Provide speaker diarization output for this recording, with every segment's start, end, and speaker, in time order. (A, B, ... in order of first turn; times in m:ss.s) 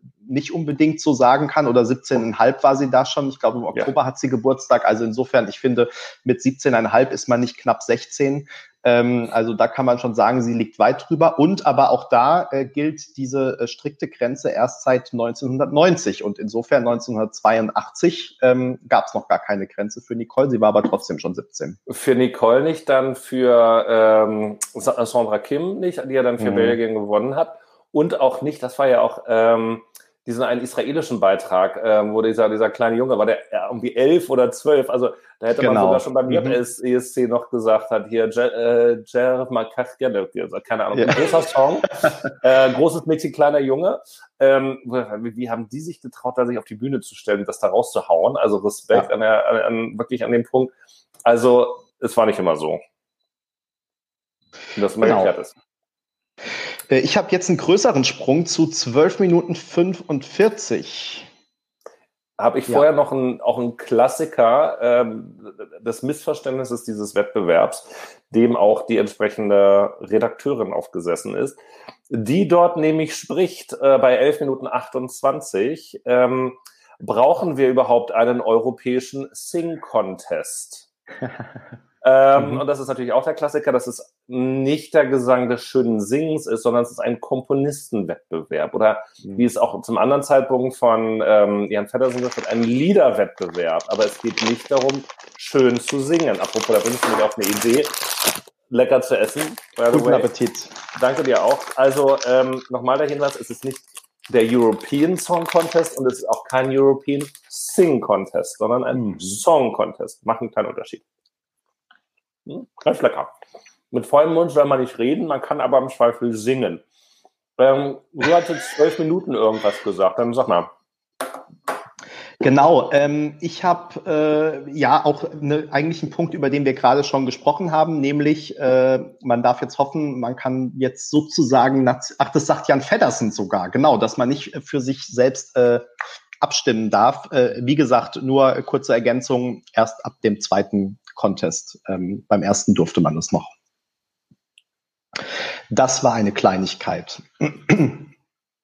0:00.2-0:21.8 A
0:21.9-0:50.7 B
0:26.4-0:26.8 A
0:35.6-0:36.6 A
0:41.0-0:41.2 A
0:51.2-0:52.8 B
0:54.8-0:55.6 B
0:55.0-0:55.3 A
0:56.9-1:01.3 A
1:02.4-1:11.6 B
1:12.1-1:20.9 B
1:22.0-1:40.3 B
1:22.4-1:22.6 A
1:39.9-1:40.8 A
1:40.9-1:51.0 B
1:48.9-1:49.4 A
1:52.5-1:53.3 B
1:53.9-1:56.8 B
1:57.6-2:00.7 B
2:02.4-2:15.9 A
2:16.4-2:23.5 A
2:25.7-2:28.1 A